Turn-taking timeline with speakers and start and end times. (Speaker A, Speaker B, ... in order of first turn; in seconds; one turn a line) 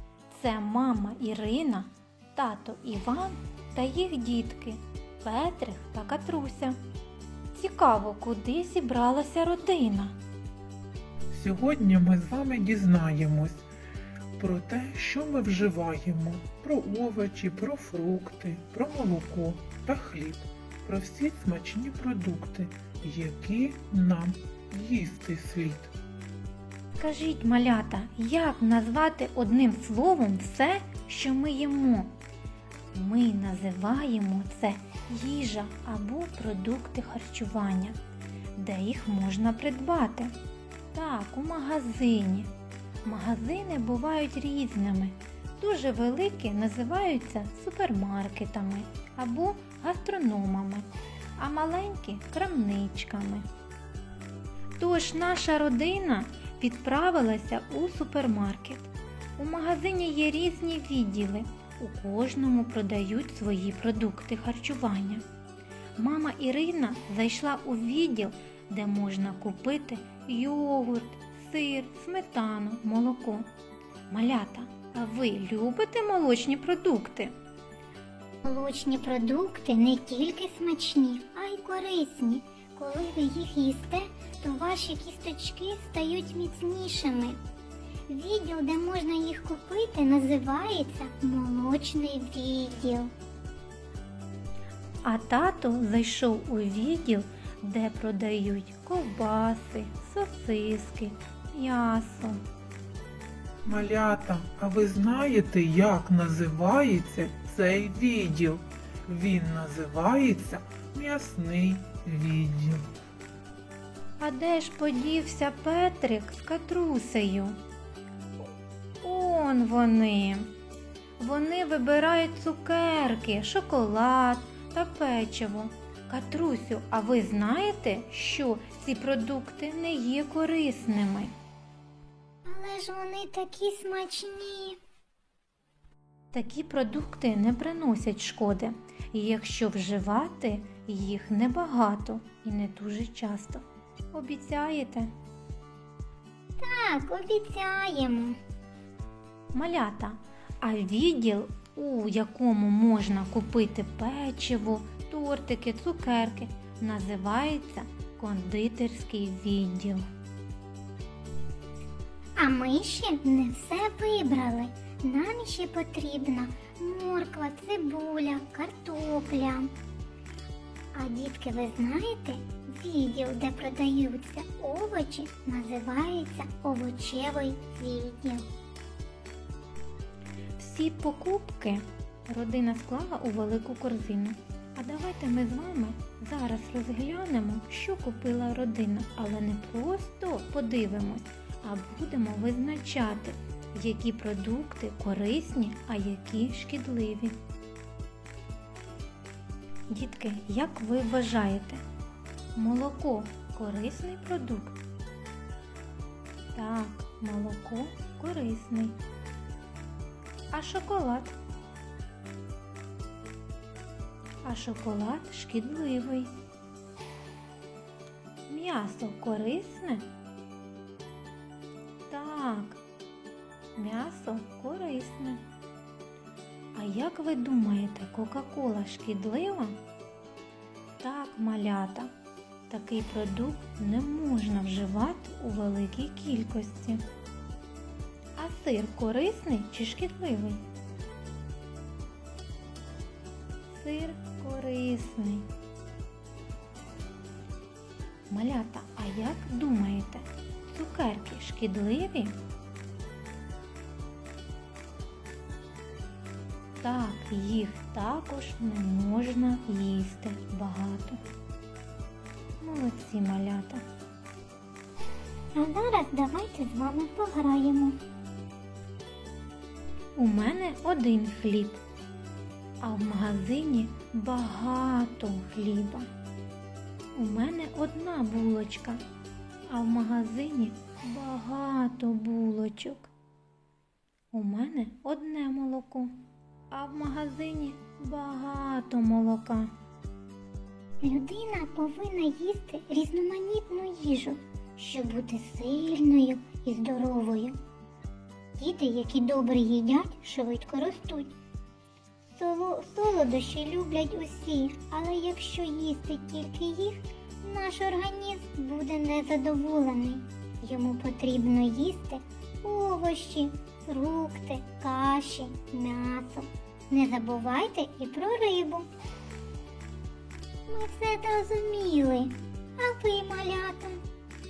Speaker A: 0.3-6.8
Speaker A: 7.5-10.2
Speaker B: 11.3-13.7
Speaker B: 14.4-25.9
Speaker A: 27.0-32.1
Speaker A: 32.9-38.0
Speaker A: 38.6-40.3
Speaker A: 40.9-42.5
Speaker A: 43.0-50.9
Speaker A: 51.4-53.5
Speaker A: 54.8-65.2
Speaker A: 66.0-73.5
Speaker A: 74.1-77.3
Speaker C: 78.4-87.4
Speaker C: 88.1-93.1
Speaker A: 95.0-102.4
Speaker B: 103.6-112.8
Speaker A: 114.2-117.6
Speaker A: 119.0-120.5
Speaker A: 121.2-131.3
Speaker C: 132.4-134.8
Speaker A: 136.3-145.1
Speaker C: 146.6-148.4
Speaker A: 149.5-160.0
Speaker C: 162.4-169.7
Speaker C: 170.9-178.5
Speaker A: 180.6-197.4
Speaker A: 199.9-201.8
Speaker A: 202.6-204.8
Speaker A: 206.5-209.0
Speaker A: 210.5-211.3
Speaker A: 214.4-216.3
Speaker A: 218.5-220.1
Speaker A: 222.1-222.8
Speaker A: 223.8-225.4
Speaker A: 226.7-229.8
Speaker A: 231.0-232.1
Speaker A: 232.7-237.0
Speaker A: 238.4-240.6
Speaker A: 243.7-245.4
Speaker A: 248.3-252.4
Speaker A: 256.8-261.2
Speaker A: 262.6-263.8
Speaker C: 265.6-268.0
Speaker A: 270.2-271.8
Speaker A: 272.8-276.1
Speaker A: 277.1-279.0
Speaker A: 279.7-283.1
Speaker A: 284.3-286.1
Speaker A: 286.7-289.7
Speaker C: 291.0-297.6
Speaker C: 298.6-301.4
Speaker C: 302.3-318.9
Speaker C: 320.7-324.0